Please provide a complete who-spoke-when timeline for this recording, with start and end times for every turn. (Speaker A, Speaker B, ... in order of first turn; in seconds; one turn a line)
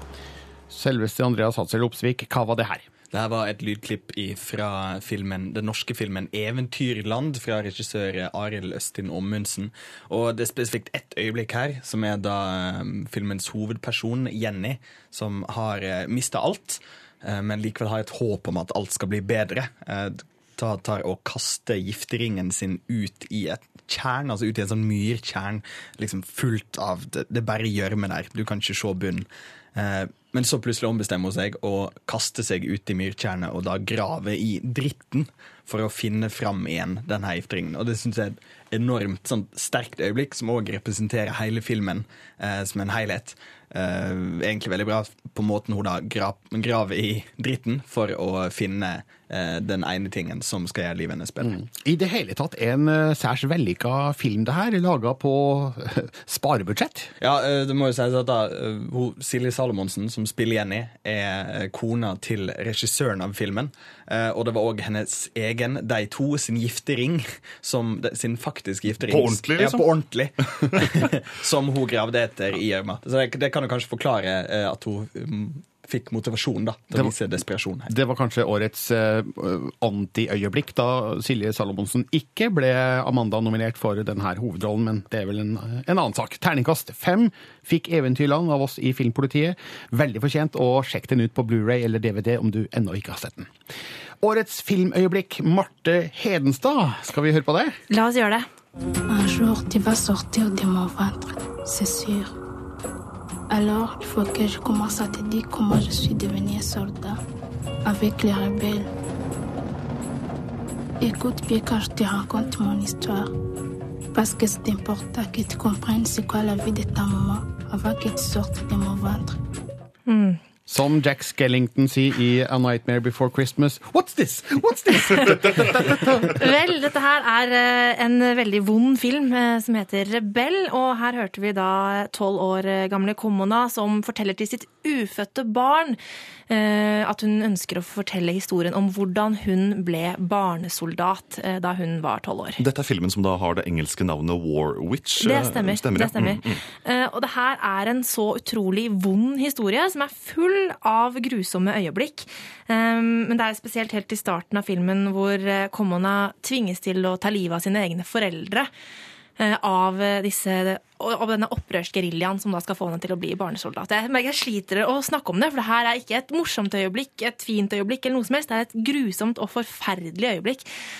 Speaker A: 0.7-2.9
Speaker B: 3.1-51.6
Speaker A: 51.4-57.1
Speaker B: 57.2-77.9
Speaker C: 68.9-69.9
Speaker A: 77.9-93.5
Speaker A: 94.2-97.8
Speaker D: 97.9-98.4
Speaker E: 99.1-102.3
Speaker E: 103.5-107.2
Speaker E: 107.8-108.9
Speaker E: 111.0-113.3
Speaker E: 114.1-119.4
Speaker D: 120.1-120.4
Speaker A: 120.7-126.4
Speaker D: 126.2-136.0
Speaker D: 136.5-142.6
Speaker C: 142.6-146.6
Speaker D: 145.2-158.7
Speaker D: 159.4-170.7